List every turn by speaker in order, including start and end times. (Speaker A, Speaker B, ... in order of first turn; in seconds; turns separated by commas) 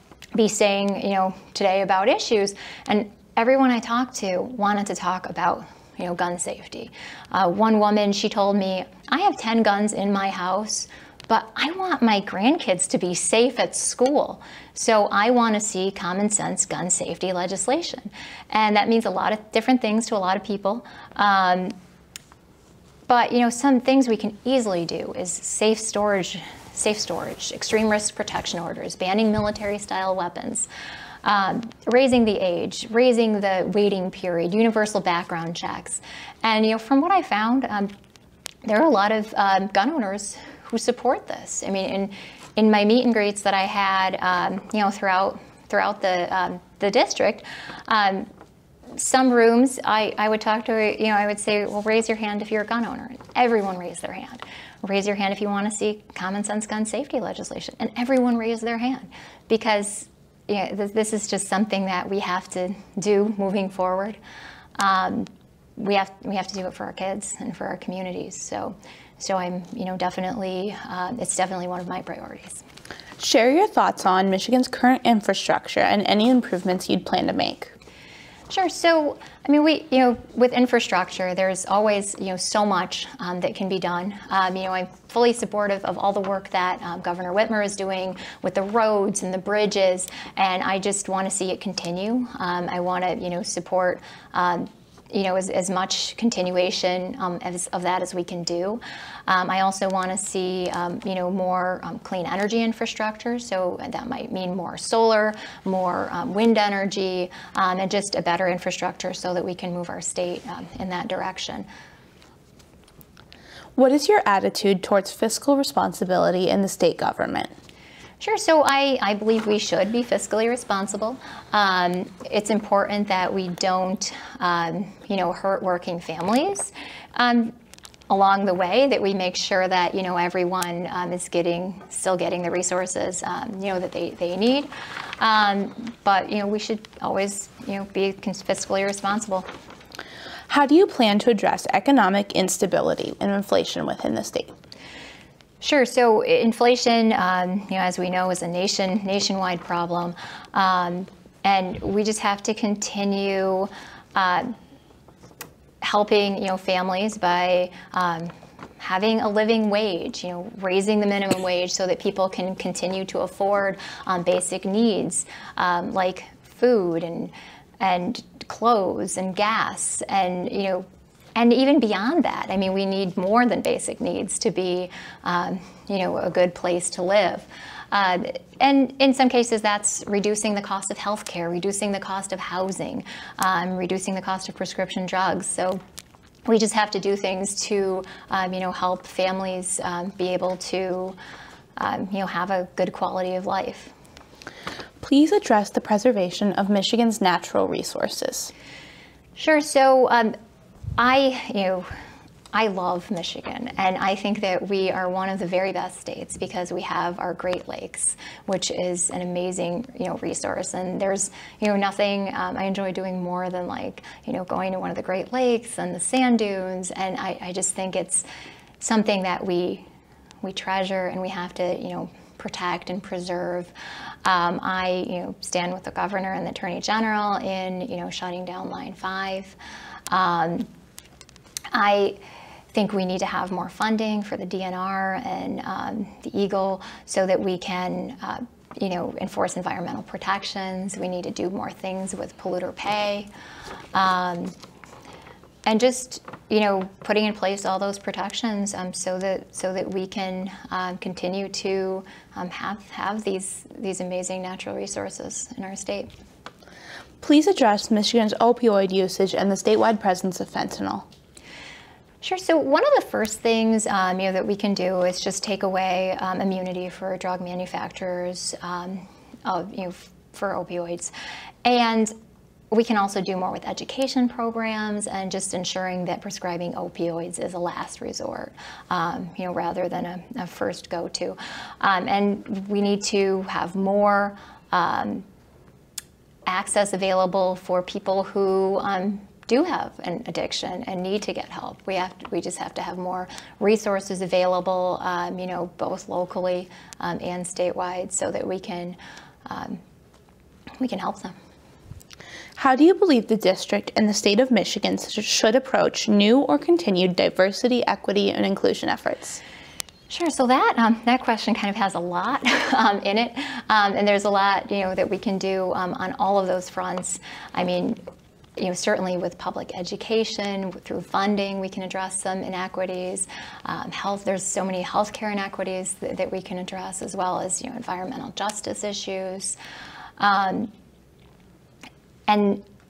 Speaker A: 0.3-21.7, Speaker A: 23.1-30.7, Speaker A: 31.2-37.9, Speaker A: 38.6-48.3, Speaker A: 49.0-64.2, Speaker A: 64.8-72.6, Speaker B: 73.2-77.7, Speaker A: 78.5-111.7, Speaker B: 113.8-117.5, Speaker A: 118.2-127.5, Speaker A: 128.1-134.7, Speaker A: 135.2-139.4, Speaker B: 140.5-144.5, Speaker A: 145.6-154.5, Speaker A: 155.8-185.8, Speaker A: 186.4-191.2, Speaker A: 191.8-193.9, Speaker B: 195.0-198.5, Speaker A: 199.3-200.3, Speaker A: 201.0-201.9, Speaker A: 202.5-218.2, Speaker A: 218.8-219.8, Speaker A: 220.4-223.7, Speaker A: 224.2-229.6, Speaker A: 230.1-230.7, Speaker A: 231.7-232.2, Speaker A: 232.7-243.3, Speaker A: 243.9-244.5, Speaker A: 245.7-256.1, Speaker B: 257.2-261.1, Speaker A: 262.2-271.1, Speaker A: 271.6-272.1, Speaker A: 272.7-285.2, Speaker A: 286.5-299.8, Speaker A: 300.8-301.3, Speaker B: 302.6-309.4, Speaker A: 310.1-318.0, Speaker A: 318.6-329.6, Speaker A: 330.2-330.7, Speaker A: 332.3-332.6